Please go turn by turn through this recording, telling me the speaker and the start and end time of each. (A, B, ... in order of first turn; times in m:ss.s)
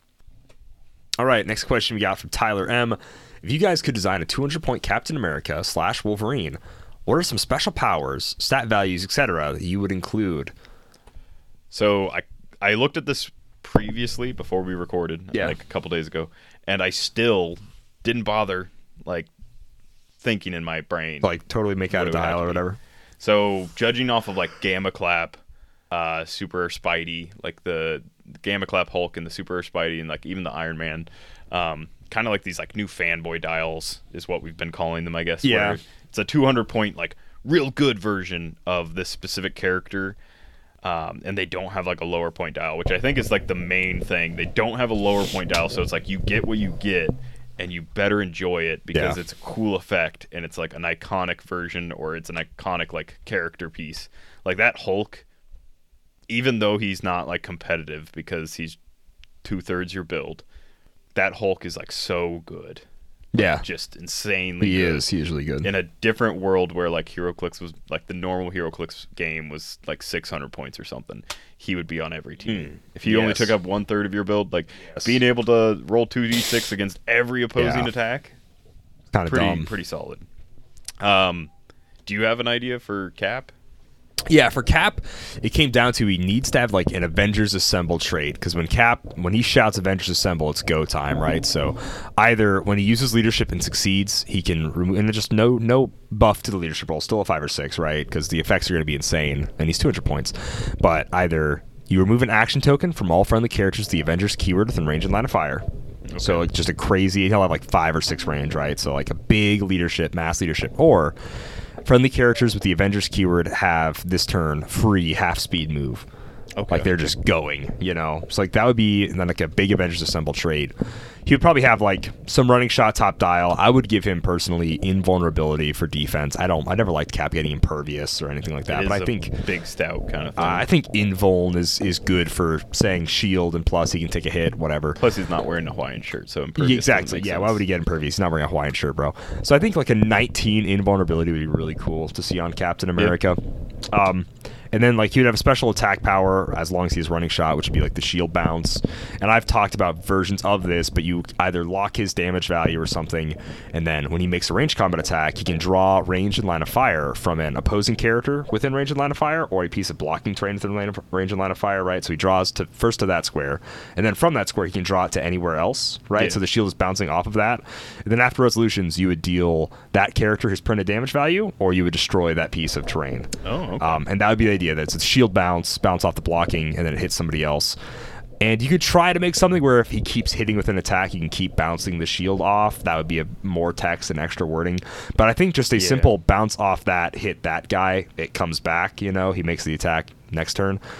0:01.2-0:10.5 A
0:11.7-0:19.3 B
0:20.2-0:21.3 B
0:21.2-0:22.8 A
0:21.9-0:22.6 B
0:23.2-0:25.4 B
0:25.9-0:40.2 B
0:35.4-0:35.8 A
0:40.8-0:55.2 B
0:48.9-0:49.2 A
0:56.3-0:58.8 B
0:59.4-1:00.4 B
1:01.1-1:02.8 B
1:03.3-1:03.6 A
1:03.4-1:05.0 B
1:04.6-1:05.7 A
1:05.6-1:18.3 B
1:12.5-1:13.6 A
1:17.6-1:17.9 A
1:19.1-1:19.7 A
1:19.2-1:20.2 B
1:21.0-1:21.5 B
1:22.0-1:23.5 B
1:24.3-1:45.6 A
1:46.1-1:46.5 B
1:46.2-1:51.2 A
1:51.8-1:56.0 A
1:56.5-1:57.0 B
1:56.7-2:00.7 A
2:01.2-2:09.3 A
2:08.7-2:10.7 B
2:10.4-2:15.0 A
2:15.0-2:17.6 B
2:16.6-2:57.8 A
2:53.4-2:54.0 B
2:58.4-3:10.8 A
3:05.7-3:06.2 B